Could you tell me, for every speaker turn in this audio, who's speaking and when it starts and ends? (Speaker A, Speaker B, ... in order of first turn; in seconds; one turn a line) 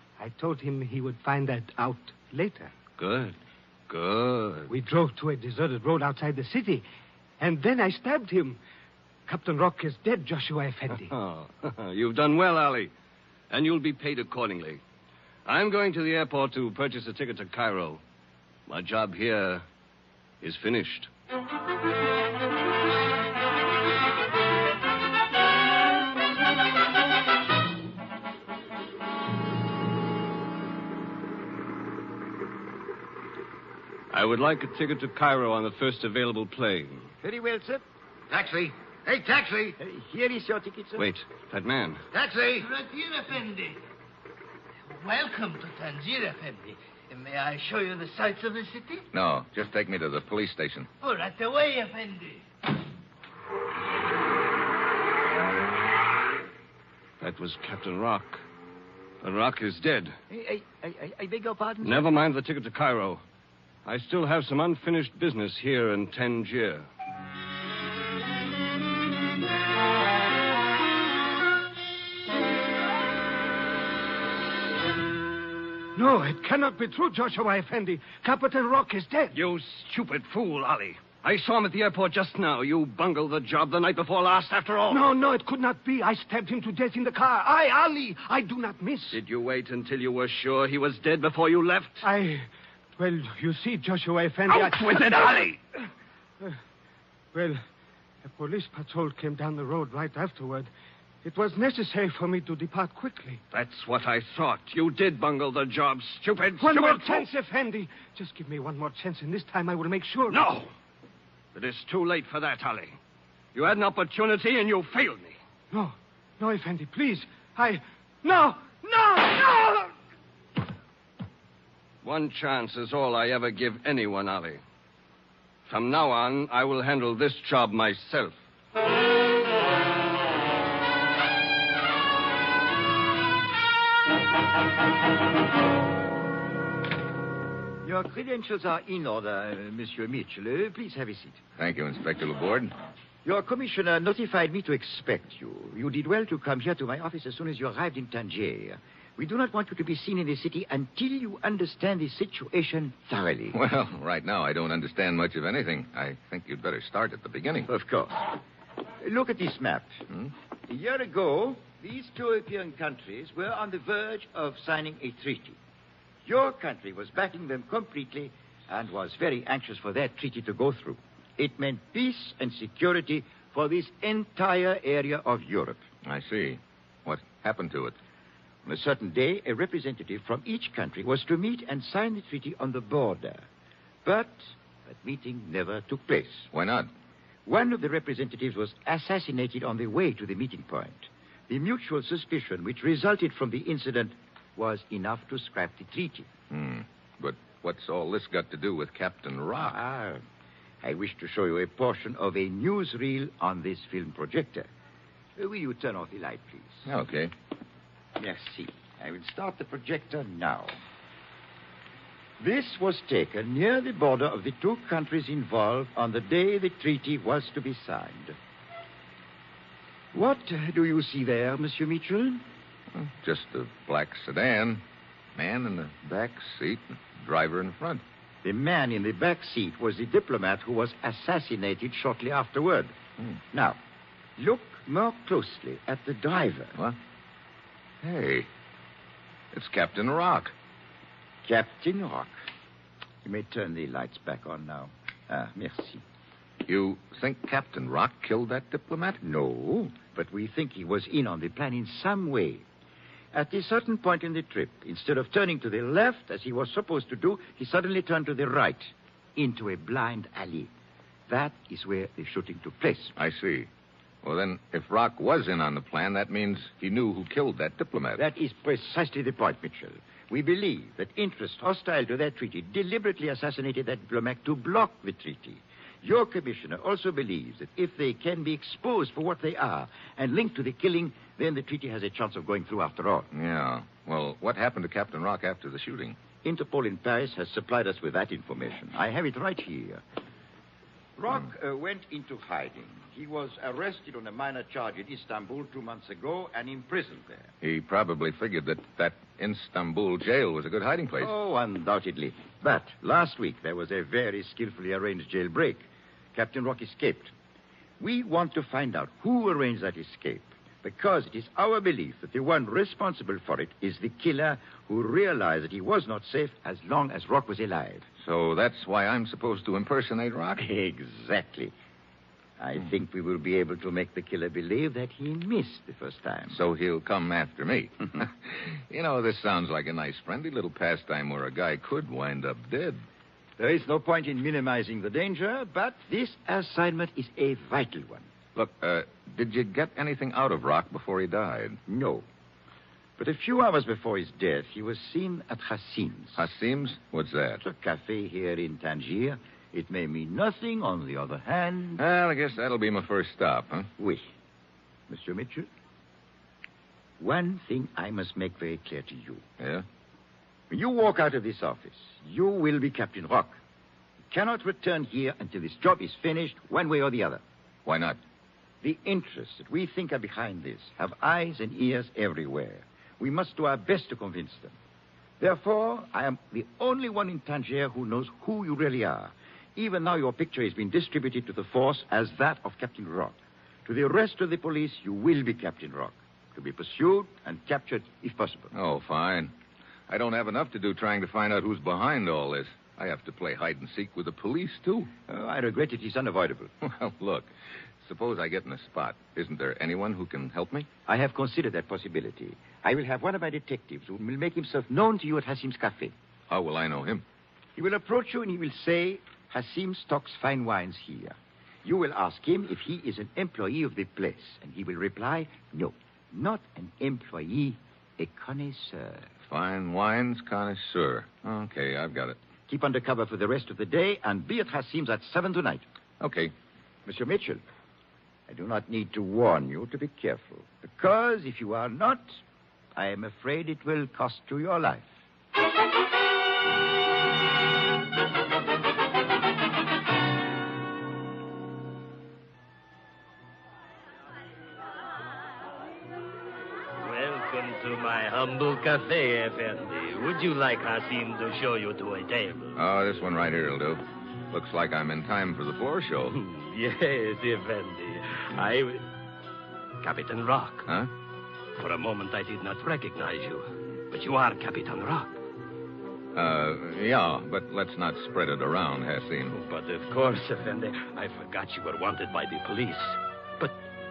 Speaker A: 0.2-2.7
Speaker B: 3.0-3.4
Speaker B: 3.9-4.7
Speaker A: 4.7-6.8
Speaker A: 7.4-8.6
Speaker A: 9.3-11.1
Speaker B: 11.0-12.9
Speaker B: 13.5-14.8
Speaker B: 15.4-18.0
Speaker B: 18.7-19.6
Speaker B: 20.4-21.1
Speaker B: 34.1-37.1
Speaker C: 37.2-37.8
Speaker D: 38.3-39.6
Speaker C: 39.7-41.1
Speaker B: 41.0-42.0
Speaker E: 42.2-43.8
Speaker E: 44.9-49.0
Speaker D: 49.1-50.9
Speaker E: 51.0-52.4
Speaker B: 57.2-58.4
Speaker B: 59.2-60.1
Speaker C: 60.3-62.1
Speaker B: 61.8-63.2
Speaker B: 63.8-66.8
Speaker A: 76.0-79.3
Speaker B: 79.3-85.1
Speaker A: 84.9-89.2
Speaker B: 89.1-92.0
Speaker A: 92.0-95.5
Speaker B: 94.5-95.6
Speaker A: 97.3-97.6
Speaker A: 98.2-100.7
Speaker A: 101.2-103.4
Speaker B: 103.5-107.3
Speaker A: 106.6-110.5
Speaker B: 110.3-110.7
Speaker B: 111.5-113.0
Speaker B: 113.5-115.4
Speaker A: 115.7-119.9
Speaker B: 122.0-124.6
Speaker B: 125.7-128.4
Speaker C: 137.8-141.4
Speaker D: 141.6-142.7
Speaker C: 143.2-153.6
Speaker D: 153.5-157.7
Speaker C: 157.7-158.3
Speaker C: 159.0-160.0
Speaker C: 160.7-165.6
Speaker C: 166.2-175.8
Speaker D: 176.0-177.9
Speaker C: 178.6-183.5
Speaker C: 184.0-186.5
Speaker D: 186.5-186.9
Speaker C: 187.4-196.3
Speaker D: 196.5-199.7
Speaker C: 199.6-200.2
Speaker C: 200.8-204.7
Speaker C: 205.4-206.9
Speaker D: 206.8-207.3
Speaker C: 208.2-210.8
Speaker C: 212.4-218.3
Speaker C: 220.1-222.4
Speaker D: 222.9-224.8
Speaker D: 225.3-228.0
Speaker C: 228.4-232.9
Speaker C: 233.5-233.8
Speaker C: 234.4-236.8
Speaker D: 238.0-238.5
Speaker D: 239.5-240.5
Speaker C: 241.4-242.3
Speaker C: 243.2-246.0
Speaker D: 246.7-249.2
Speaker C: 249.2-252.7
Speaker C: 253.3-260.7
Speaker C: 261.3-263.1
Speaker D: 263.1-263.7
Speaker D: 264.2-268.2
Speaker C: 268.1-283.3
Speaker D: 283.3-286.2
Speaker C: 286.4-290.0
Speaker C: 291.2-297.5
Speaker D: 297.6-301.3
Speaker C: 301.2-307.3
Speaker C: 308.0-318.1
Speaker D: 318.2-320.6
Speaker C: 320.6-321.7
Speaker C: 322.6-326.6
Speaker D: 326.5-333.0
Speaker C: 333.6-338.3
Speaker D: 338.5-341.8
Speaker C: 341.9-342.2
Speaker C: 343.2-346.4
Speaker D: 346.4-347.6
Speaker C: 347.6-352.0
Speaker D: 352.0-353.9
Speaker C: 354.0-354.3
Speaker C: 355.1-355.7
Speaker C: 357.2-359.4
Speaker D: 359.6-359.8
Speaker C: 360.7-363.6
Speaker C: 364.3-367.4
Speaker D: 367.8-368.2
Speaker C: 368.8-374.8
Speaker C: 375.4-388.7
Speaker D: 388.7-389.5
Speaker D: 390.1-395.1
Speaker C: 395.3-396.7
Speaker D: 396.8-400.9
Speaker C: 401.1-406.1
Speaker D: 406.5-407.2
Speaker C: 407.8-419.3
Speaker D: 419.5-422.4
Speaker C: 422.7-425.8
Speaker D: 426.2-426.5
Speaker C: 427.1-427.6
Speaker C: 428.5-432.4
Speaker C: 432.9-435.1
Speaker F: 447.0-452.8
Speaker D: 452.7-456.4
Speaker F: 456.3-459.1
Speaker F: 460.0-460.9
Speaker F: 461.8-465.4
Speaker D: 466.3-469.6
Speaker F: 469.5-473.7